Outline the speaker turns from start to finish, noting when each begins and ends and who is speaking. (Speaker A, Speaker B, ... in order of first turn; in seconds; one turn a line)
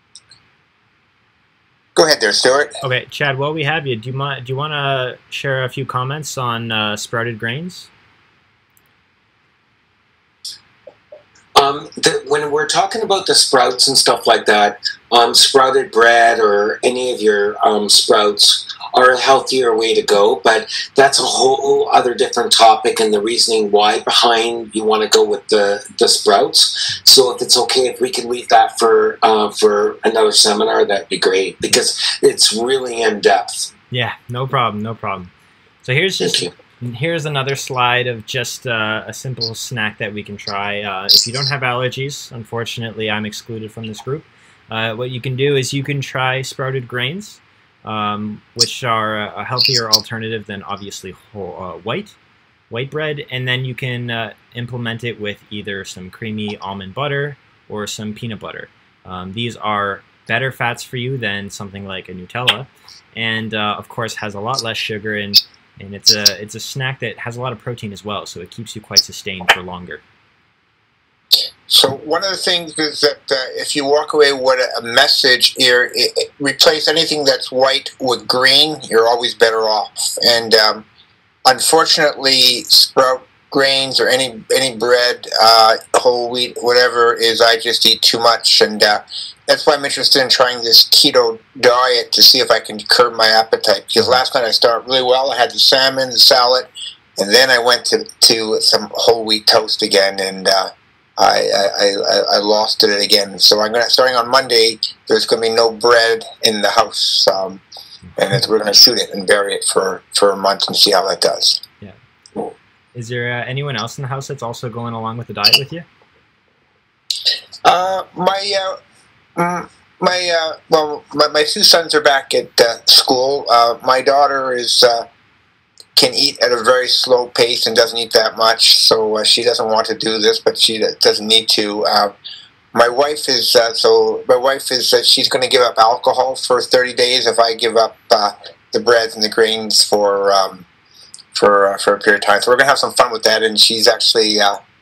Speaker A: 1.9-2.8
Speaker B: 2.8-7.9
Speaker C: 11.5-33.7
Speaker B: 33.9-35.3
Speaker B: 35.8-52.1
Speaker C: 36.2-36.5
Speaker B: 52.7-70.0
Speaker A: 71.7-80.8
Speaker A: 81.5-107.6
Speaker A: 108.2-111.6
Speaker B: 112.9-115.9
Speaker A: 117.6-118.8
Speaker A: 119.3-125.1
Speaker A: 125.9-132.1
Speaker A: 132.7-140.7
Speaker A: 141.3-144.6